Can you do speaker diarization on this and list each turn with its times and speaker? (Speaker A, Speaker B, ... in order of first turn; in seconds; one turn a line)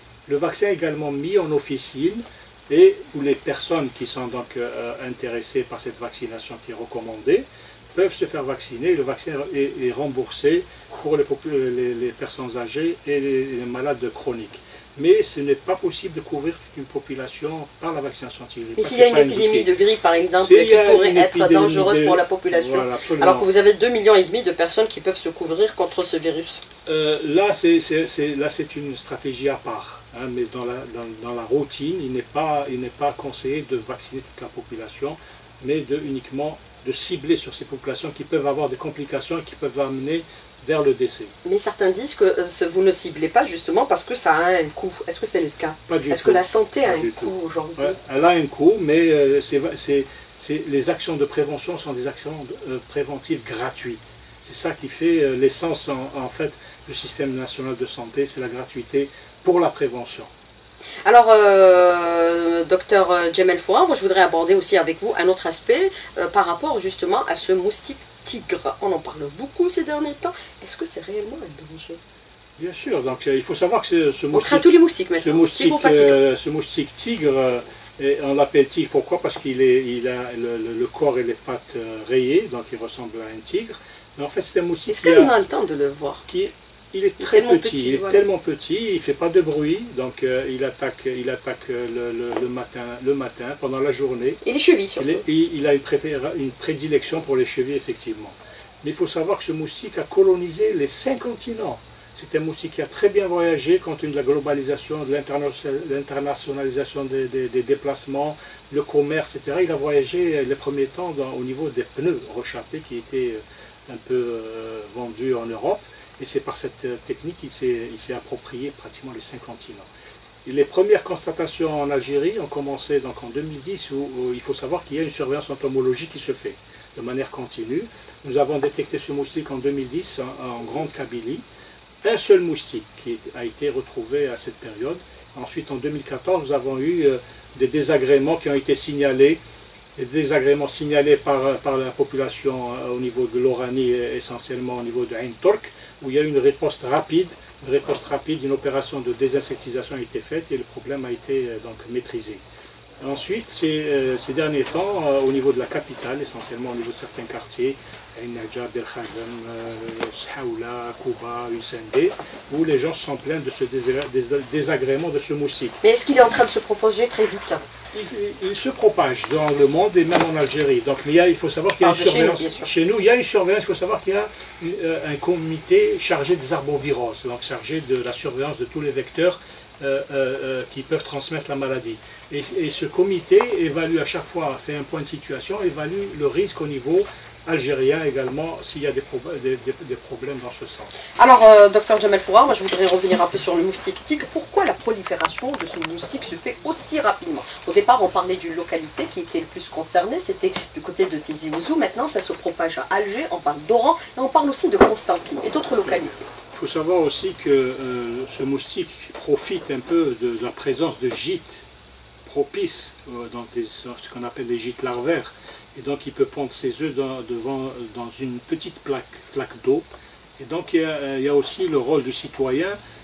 Speaker A: 0.3-19.7
Speaker B: 18.8-26.6
Speaker A: 20.4-23.5
Speaker A: 26.9-41.3
Speaker B: 41.4-48.0
Speaker A: 45.9-60.3
Speaker B: 61.0-72.0
Speaker A: 72.6-85.3
Speaker B: 74.3-76.2
Speaker B: 84.9-86.2
Speaker A: 86.3-94.4
Speaker B: 87.2-88.2
Speaker B: 94.4-95.2
Speaker A: 95.0-119.9
Speaker A: 120.5-131.4
Speaker A: 132.0-139.4
Speaker A: 140.0-152.4
Speaker A: 153.0-165.8
Speaker B: 165.8-167.6
Speaker A: 167.9-190.9
Speaker B: 171.8-172.7
Speaker B: 191.2-206.2
Speaker A: 205.8-211.7
Speaker A: 212.2-219.8
Speaker A: 220.4-222.8